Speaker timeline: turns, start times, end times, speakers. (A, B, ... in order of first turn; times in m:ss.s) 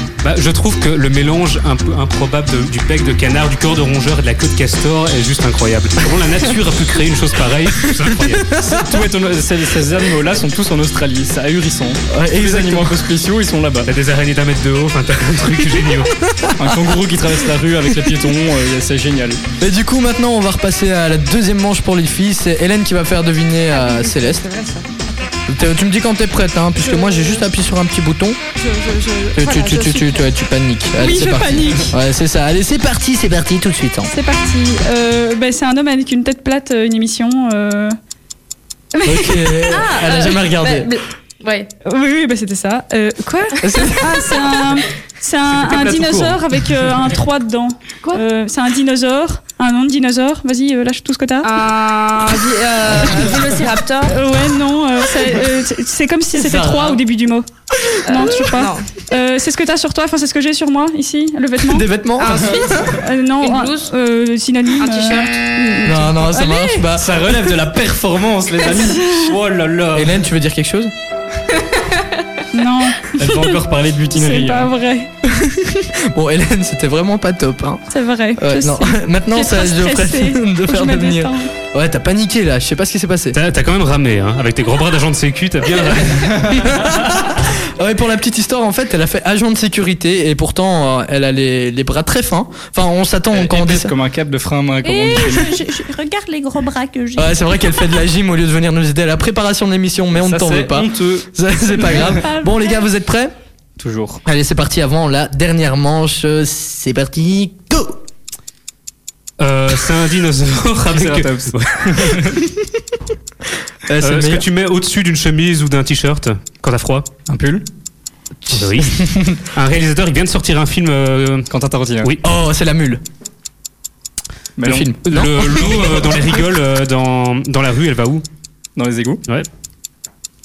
0:00.2-0:08.6 A
0:07.8-0:08.9 B
0:08.7-0:13.9 C
0:12.1-0:13.1 B
0:13.8-0:16.2 A
0:16.2-0:17.0 B
0:16.6-0:19.4 C
0:19.6-0:24.4 B
0:23.7-0:25.3 D
0:25.5-0:28.4 B
0:26.8-0:27.4 D
0:28.6-0:30.3 D
0:29.4-0:34.1 B
0:31.0-0:32.0 D
0:34.1-0:38.0 D
0:39.0-0:39.8 D
0:39.0-0:40.9 B
0:39.6-0:41.7 E
0:41.8-0:51.6 D
0:43.6-0:44.4 B
0:51.4-0:54.2 E
0:54.1-0:57.5 D
0:56.3-0:57.0 B
0:58.1-0:58.9 E
0:58.1-1:01.9 D
1:01.6-1:02.9 B
1:02.2-1:03.9 E
1:03.0-1:06.9 D
1:04.8-1:05.3 E
1:05.8-1:07.2 B
1:07.0-1:10.2 C
1:08.6-1:09.4 D
1:10.0-1:10.9 B
1:11.6-1:12.4 E
1:12.5-1:13.6 D
1:13.1-1:14.7 C
1:14.2-1:15.1 D
1:15.2-1:17.8 B
1:17.9-1:21.5 D
1:18.4-1:23.4 B
1:23.3-1:26.5 A
1:26.2-1:26.8 C
1:26.3-1:33.9 B
1:33.3-1:35.6 C
1:34.8-1:37.8 D
1:37.2-1:43.3 B
1:40.2-1:42.2 C
1:41.8-1:42.8 D
1:43.8-1:44.2 C
1:44.2-1:48.0 B
1:49.4-1:52.2 A
1:50.9-1:52.4 C
1:53.9-1:54.4 B
1:54.0-1:57.1 A
1:57.3-1:57.6 C
1:58.5-1:59.4 B
1:58.6-2:01.5 A
2:01.5-2:02.2 C
2:02.2-2:03.0 B
2:04.6-2:04.9 C
2:04.6-2:06.1 B
2:05.0-2:08.2 A
2:08.8-2:09.2 C